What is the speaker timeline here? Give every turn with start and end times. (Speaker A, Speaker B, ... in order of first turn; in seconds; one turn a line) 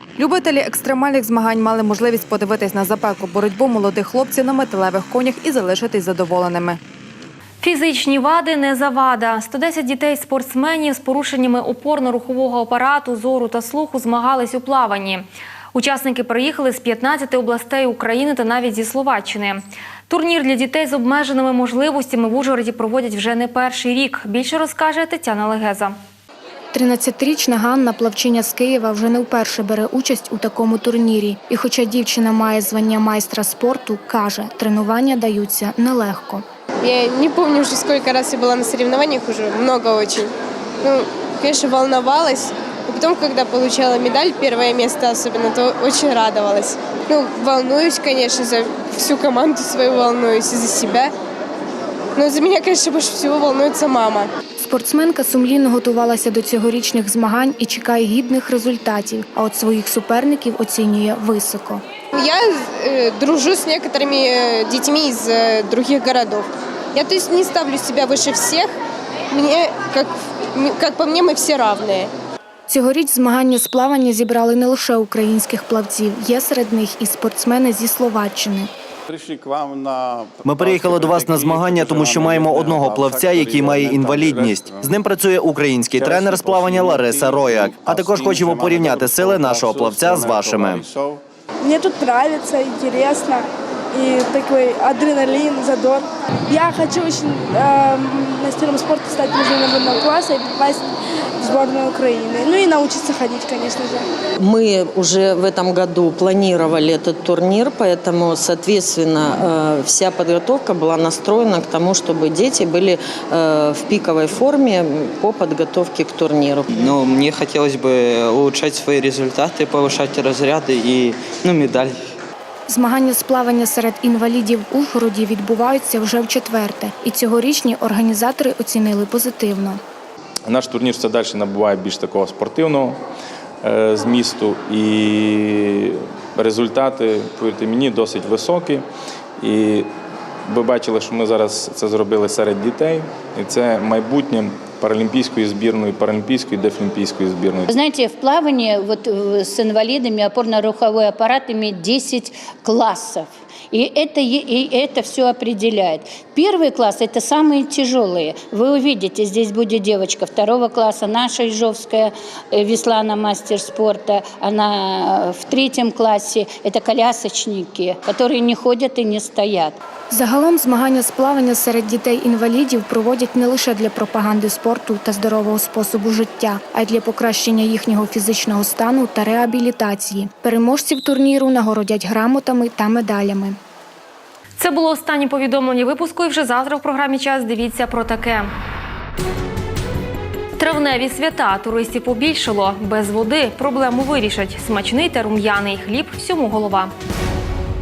Speaker A: 0.2-6.8
Speaker B: 7.6-25.9
Speaker C: 26.7-36.4
Speaker D: 36.8-40.3
Speaker D: 40.8-51.1
Speaker D: 52.2-54.3
Speaker C: 54.6-61.8
Speaker D: 62.1-68.8
Speaker D: 69.3-72.1
Speaker C: 72.7-78.7
Speaker E: 79.1-91.2
Speaker F: 91.6-100.8
Speaker F: 101.4-104.0
Speaker G: 104.4-116.8
Speaker H: 116.7-122.0
Speaker C: 122.7-129.8
Speaker I: 130.5-133.0
Speaker I: 133.6-138.8
Speaker I: 139.4-139.9
Speaker I: 140.4-147.7
Speaker J: 147.7-169.8
Speaker C: 170.1-183.6
Speaker B: 184.6-188.5
Speaker B: 190.6-196.9